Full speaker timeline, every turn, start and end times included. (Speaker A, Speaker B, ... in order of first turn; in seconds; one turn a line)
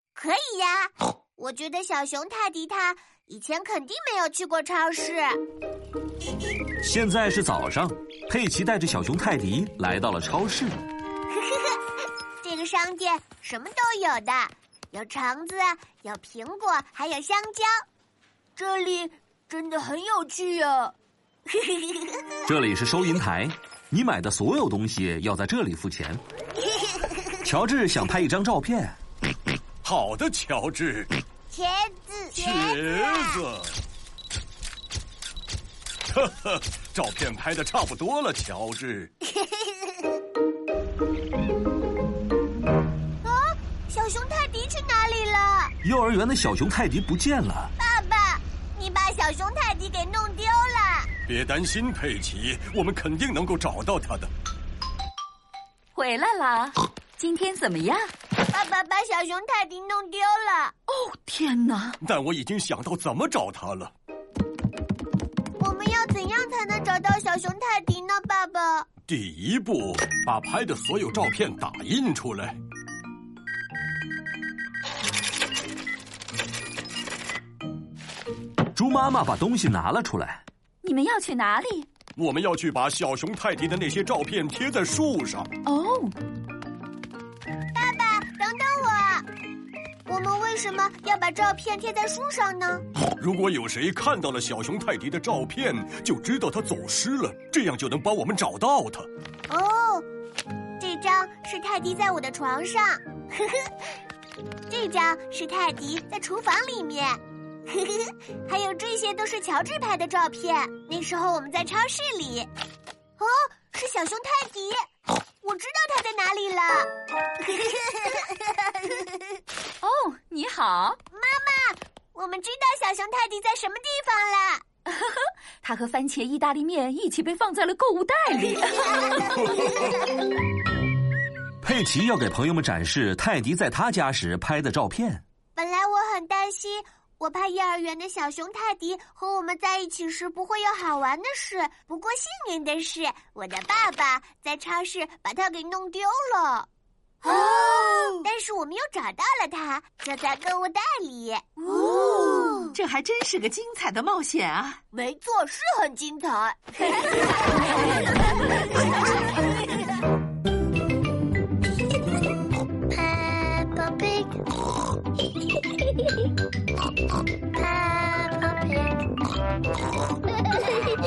Speaker A: 0.1-5.4
Speaker B: 6.8-10.8
Speaker A: 11.3-11.8
Speaker A: 12.4-17.7
Speaker A: 18.6-20.9
Speaker A: 21.5-22.2
Speaker B: 22.4-26.2
Speaker A: 26.8-27.2
Speaker B: 27.4-29.0
Speaker C: 29.8-31.1
Speaker A: 31.5-33.4
Speaker C: 32.4-33.7
Speaker C: 36.1-39.1
Speaker A: 39.3-39.9
Speaker A: 43.2-45.7
Speaker B: 45.8-47.7
Speaker A: 47.8-51.1
Speaker C: 51.3-54.3
Speaker D: 55.9-58.1
Speaker A: 58.5-60.7
Speaker D: 60.9-62.0
Speaker C: 62.0-63.9
Speaker A: 65.6-68.9
Speaker C: 69.1-72.6
Speaker B: 78.7-80.4
Speaker D: 80.8-81.9
Speaker C: 82.2-85.5
Speaker D: 85.7-86.1
Speaker A: 87.7-89.2
Speaker A: 90.0-92.8
Speaker C: 93.2-99.1
Speaker A: 99.5-100.1
Speaker A: 100.8-103.7
Speaker A: 104.7-112.5
Speaker A: 113.2-114.8
Speaker A: 115.4-116.9
Speaker A: 117.4-119.4
Speaker D: 119.8-121.0
Speaker A: 121.1-124.6
Speaker D: 124.9-129.5
Speaker A: 129.4-129.7
Speaker B: 131.6-135.2
Speaker A: 135.5-146.7
Speaker A: 147.2-152.8
Speaker E: 151.7-154.8
Speaker A: 154.9-157.0
Speaker A: 163.0-164.3
Speaker A: 167.6-168.8